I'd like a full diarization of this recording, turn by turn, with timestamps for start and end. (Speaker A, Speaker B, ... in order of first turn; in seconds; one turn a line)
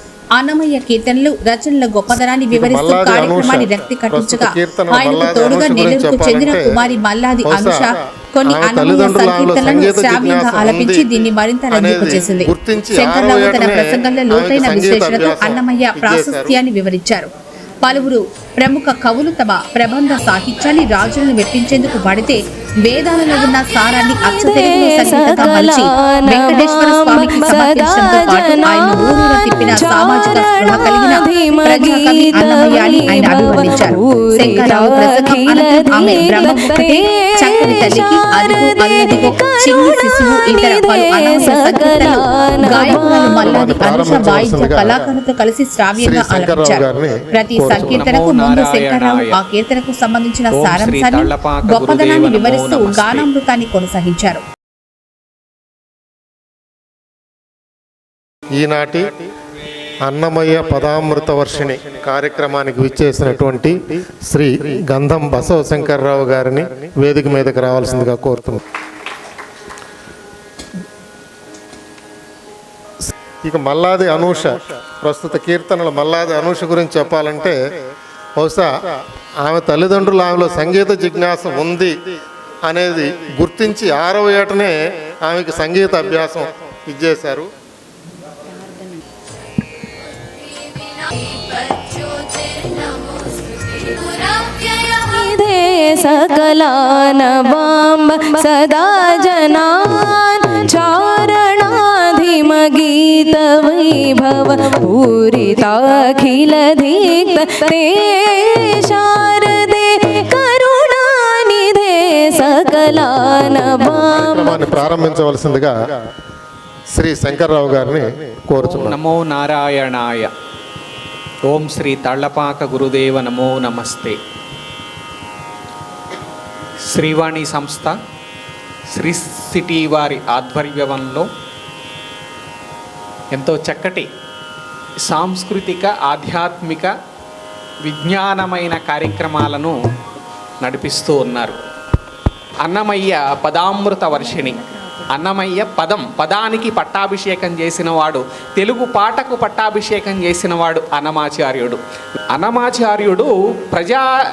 Speaker A: 0.4-17.3
Speaker B: 2.5-6.6
Speaker B: 7.4-7.9
Speaker B: 8.5-16.6
Speaker A: 17.8-54.4
Speaker C: 24.2-44.0
Speaker B: 43.3-45.1
Speaker B: 46.0-48.1
Speaker D: 47.9-49.3
Speaker D: 50.5-53.3
Speaker B: 58.6-59.1
Speaker B: 60.0-68.6
Speaker B: 73.4-77.7
Speaker B: 78.4-82.0
Speaker B: 82.6-87.5
Speaker C: 90.4-114.7
Speaker B: 114.1-116.0
Speaker B: 116.9-119.0
Speaker D: 118.6-120.3
Speaker D: 121.5-124.2
Speaker D: 126.9-128.0
Speaker D: 128.9-131.3
Speaker D: 133.3-134.1
Speaker D: 135.1-136.9
Speaker D: 137.8-139.7
Speaker D: 140.6-141.6
Speaker D: 142.6-151.8
Speaker D: 152.3-154.1